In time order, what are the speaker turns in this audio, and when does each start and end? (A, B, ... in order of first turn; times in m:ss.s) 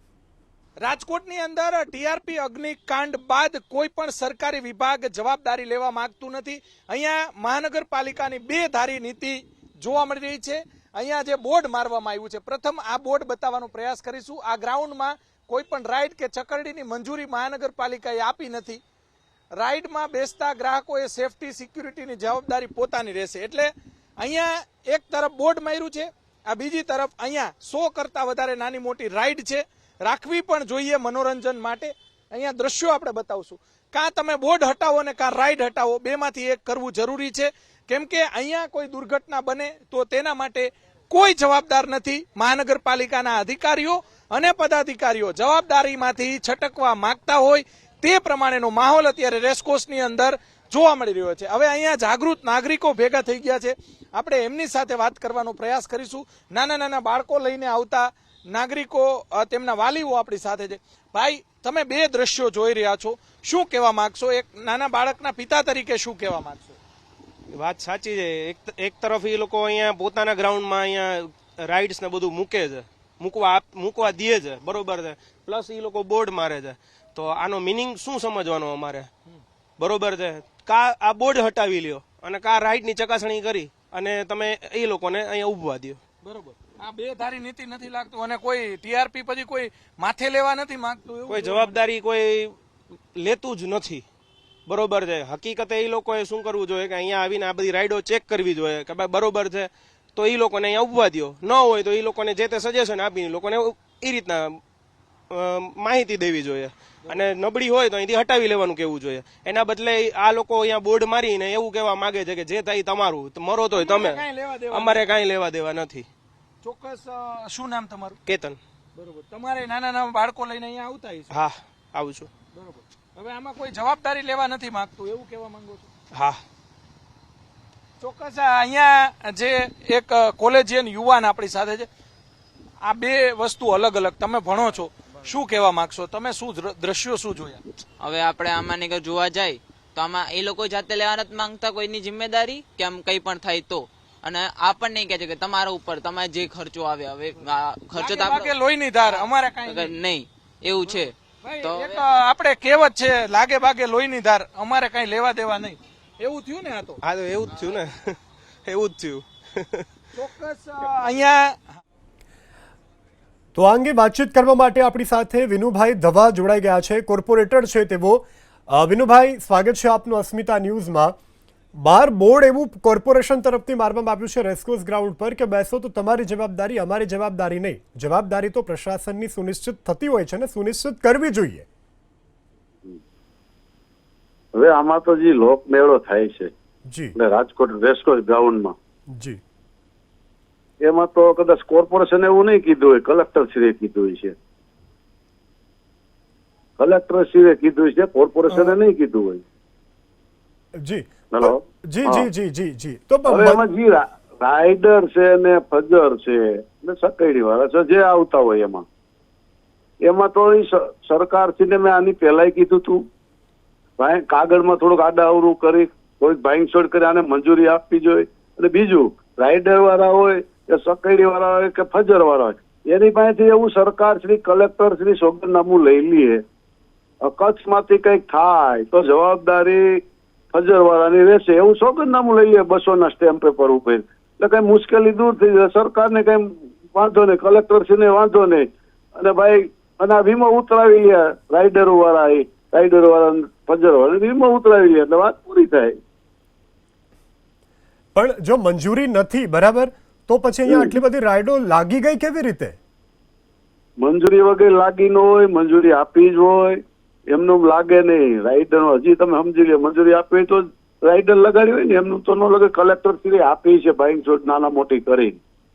0:00.8-0:18.8 A
0:19.6-1:06.8 A
1:07.5-1:19.1 B
1:19.8-1:26.0 B
1:26.2-1:31.8 A
1:31.3-1:32.6 B
1:33.1-1:34.0 B
1:34.6-1:44.6 B
1:45.3-1:56.1 B
1:53.7-1:55.0 A
1:56.6-1:58.2 A
1:58.2-1:58.6 B
1:58.9-2:01.4 A
2:01.3-2:02.3 B
2:02.5-2:05.9 A
2:06.1-2:06.4 B
2:08.0-2:11.9 A
2:12.8-2:17.6 A
2:18.0-2:28.5 C
2:27.4-2:30.0 A
2:29.2-2:32.0 C
2:30.9-2:37.0 A
2:37.0-2:39.9 B
2:40.1-2:41.8 A
2:43.5-2:51.1 D
2:51.7-3:01.6 D
3:04.6-3:06.5 E
3:06.9-3:07.1 D
3:07.2-3:08.7 E
3:09.1-3:09.4 D
3:10.8-3:14.3 E
3:16.8-3:19.4 E
3:18.5-3:18.8 D
3:20.8-3:23.6 D
3:21.3-3:22.3 E
3:23.2-3:28.8 E
3:30.0-3:33.0 E
3:34.0-3:46.4 E
3:47.2-3:50.0 E
3:50.5-4:05.9 E
4:08.1-4:12.8 D
4:10.7-4:11.0 E
4:14.0-4:16.8 E
4:17.3-4:25.4 E